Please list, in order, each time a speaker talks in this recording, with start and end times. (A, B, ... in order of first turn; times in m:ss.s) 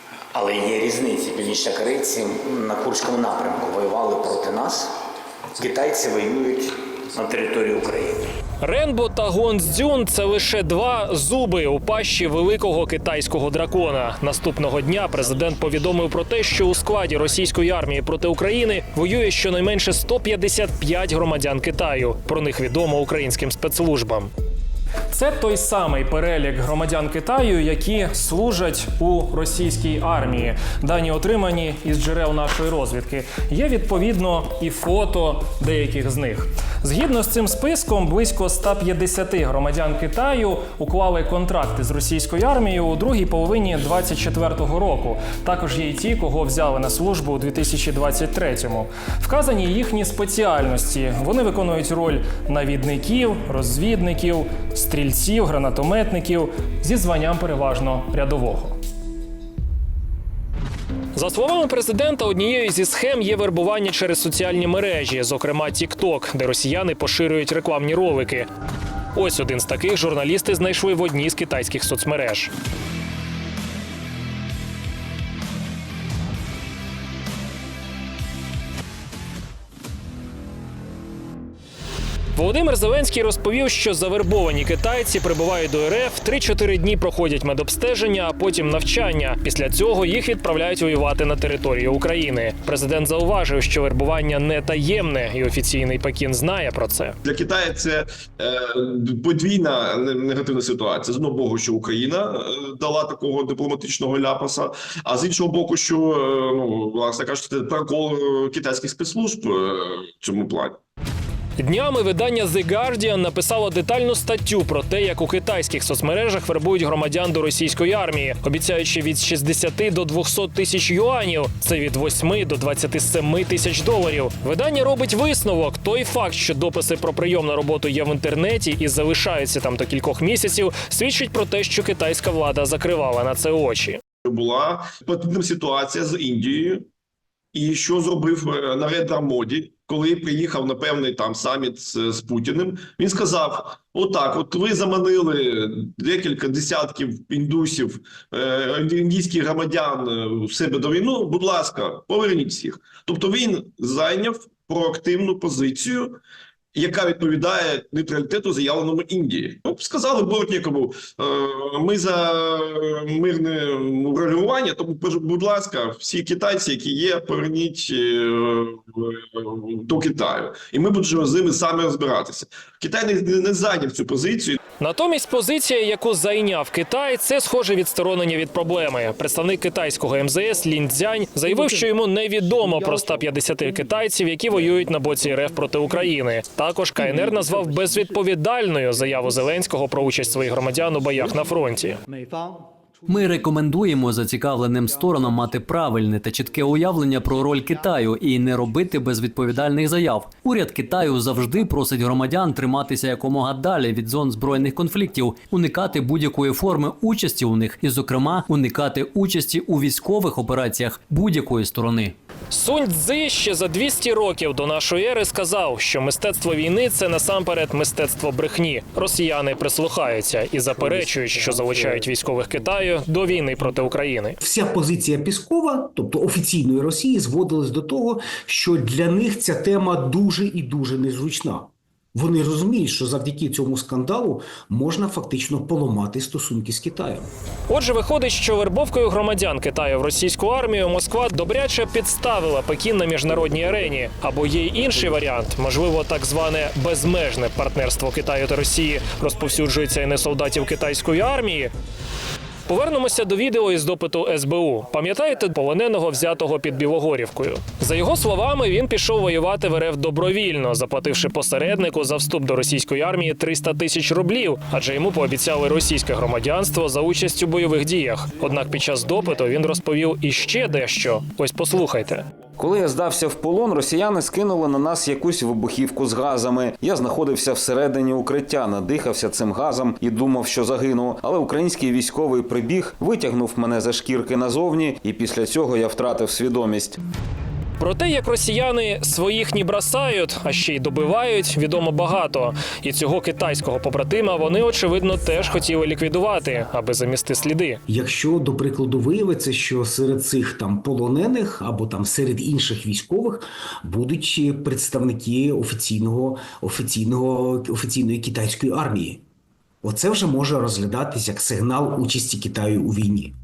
0:00.3-0:05.0 A
0:05.6-0:08.3 A
0:08.6-0:24.3 B
0:25.1-0:58.8 B
1:01.2-1:08.5 B
1:09.2-1:12.5 B
1:22.4-1:37.2 B
1:37.2-1:50.8 C
1:51.6-2:14.0 B
2:14.3-2:16.8 C
2:17.5-2:36.2 C
2:36.8-2:54.6 C
2:54.8-3:12.0 B
3:13.1-3:32.1 D
3:32.5-3:44.4 B
3:40.9-3:41.2 E
3:44.4-3:57.3 E
3:57.7-4:11.7 B
4:12.7-4:32.3 B
4:32.6-4:47.0 F
4:47.8-4:57.8 B
4:57.9-5:09.2 E
5:09.8-5:13.3 E